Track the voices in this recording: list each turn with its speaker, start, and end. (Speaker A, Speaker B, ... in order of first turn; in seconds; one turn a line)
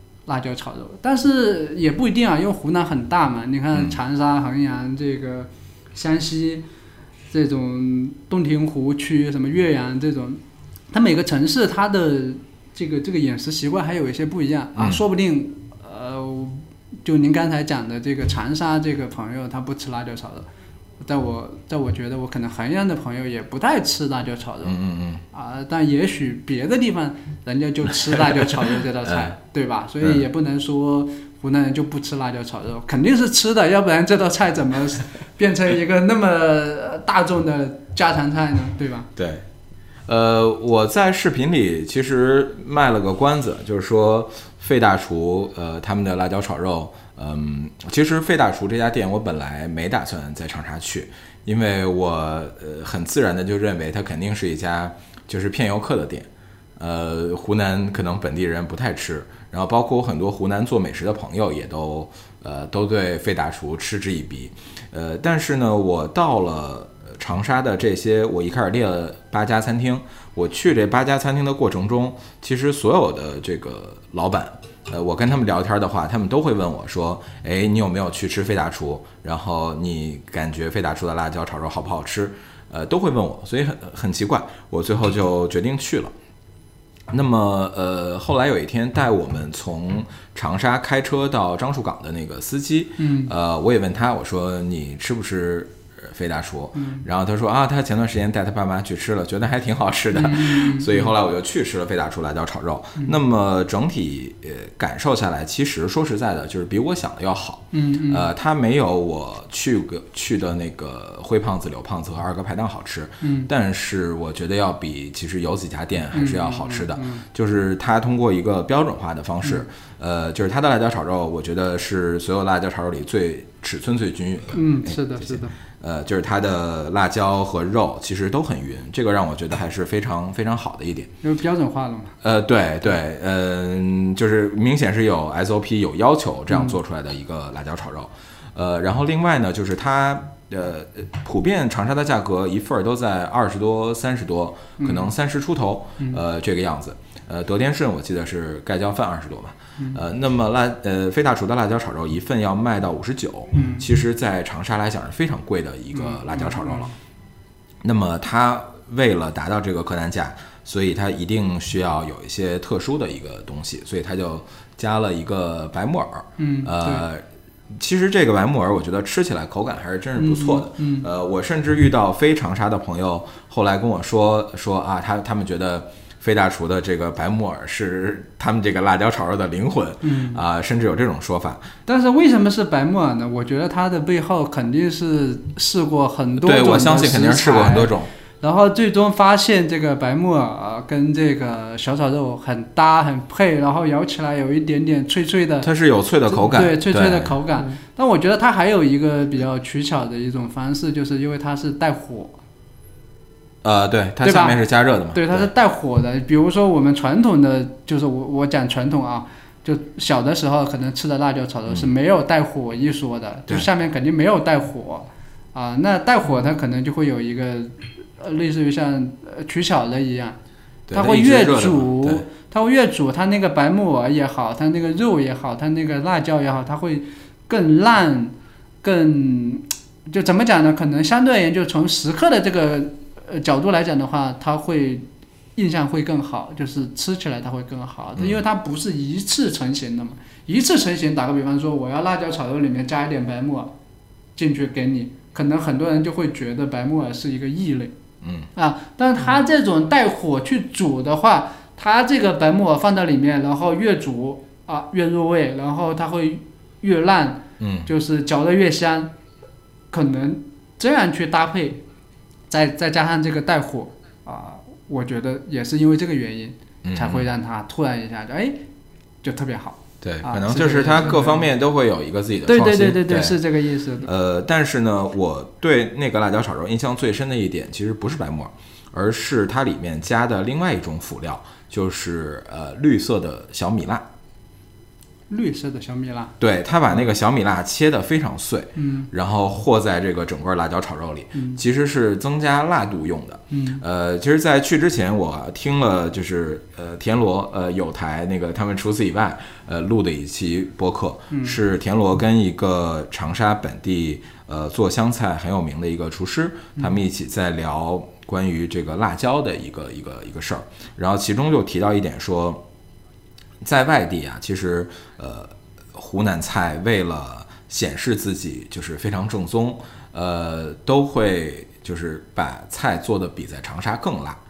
Speaker A: 0.2-6.6
Speaker A: 7.3-10.4
Speaker A: 10.9-20.5
Speaker B: 14.8-15.0
Speaker A: 21.0-24.8
Speaker B: 24.6-25.2
Speaker A: 25.3-39.1
Speaker B: 28.2-29.3
Speaker B: 30.0-30.2
Speaker B: 39.1-39.4
Speaker B: 40.1-86.1
Speaker B: 87.1-131.1
Speaker A: 93.0-93.3
Speaker A: 96.8-97.0
Speaker A: 100.1-101.1
Speaker A: 107.7-108.3
Speaker A: 113.2-113.5
Speaker A: 116.1-117.2
Speaker A: 124.5-125.5
Speaker A: 131.2-132.1
Speaker B: 132.2-156.9
Speaker A: 136.5-136.8
Speaker A: 144.8-145.1
Speaker A: 153.5-153.8
Speaker A: 155.9-156.9
Speaker B: 157.8-181.7
Speaker A: 166.4-167.0
Speaker A: 170.2-171.1
Speaker A: 180.0-180.4
Speaker A: 181.8-195.7
Speaker B: 186.4-188.1
Speaker B: 195.6-197.3
Speaker A: 196.3-202.4
Speaker B: 203.6-205.5
Speaker A: 204.2-204.6
Speaker A: 205.1-220.4
Speaker B: 220.9-222.2
Speaker A: 220.9-243.7
Speaker A: 244.3-247.9
Speaker B: 248.2-248.5
Speaker A: 248.5-259.1
Speaker B: 257.6-257.9
Speaker A: 259.9-261.8
Speaker A: 262.5-268.6
Speaker B: 266.8-267.2
Speaker A: 269.2-271.5
Speaker B: 270.0-273.4
Speaker A: 272.4-274.1
Speaker B: 274.0-284.1
Speaker A: 285.3-286.3
Speaker B: 286.4-312.6
Speaker A: 286.9-287.2
Speaker A: 288.8-289.1
Speaker A: 291.3-291.6
Speaker A: 293.5-293.8
Speaker A: 301.3-301.6
Speaker B: 313.6-324.4